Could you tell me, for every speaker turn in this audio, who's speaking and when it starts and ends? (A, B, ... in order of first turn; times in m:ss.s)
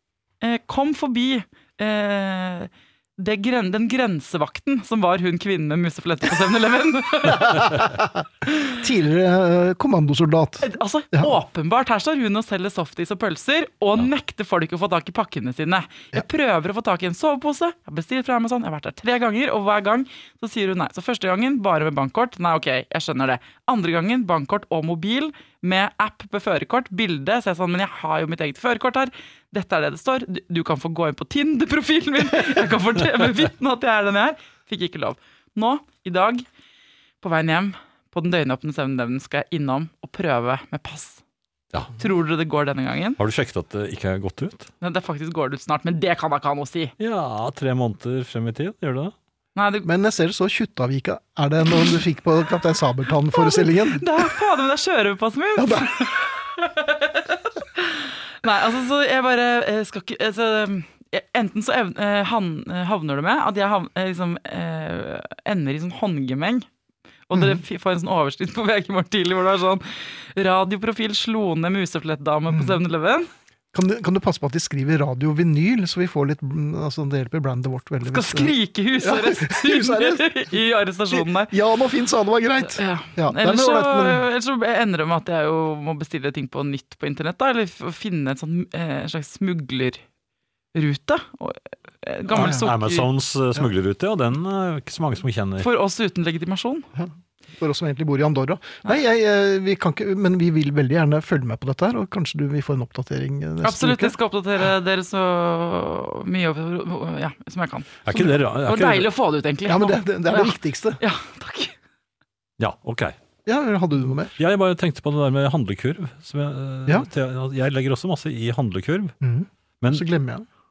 0:00.4-0:07.9 A
0:07.3-0:11.3 B
0:10.6-0:36.4 A
0:37.2-0:41.2 A
0:41.9-0:43.2 A
0:43.2-0:44.7 C
0:44.8-0:46.9 A
0:47.0-0:49.1 C
0:49.6-0:49.9 A
0:49.8-0:54.2 B
0:53.3-1:06.6 A
0:55.6-0:56.1 B
1:07.3-1:13.3 A
1:07.3-1:07.6 B
1:12.5-1:12.8 B
1:13.7-1:20.3 B
1:18.0-1:21.5 A
1:21.1-1:24.2 B
1:22.7-1:30.0 A
1:30.7-1:33.1 A
1:32.3-1:32.7 B
1:32.3-1:35.7 C
1:35.6-1:36.9 A
1:36.9-1:44.1 B
1:43.6-1:51.7 A
1:48.0-1:49.1 C
1:49.6-1:51.0 B
1:52.6-1:53.2 C
1:53.4-1:54.4 B
1:54.4-1:59.1 C
1:59.2-2:00.5 B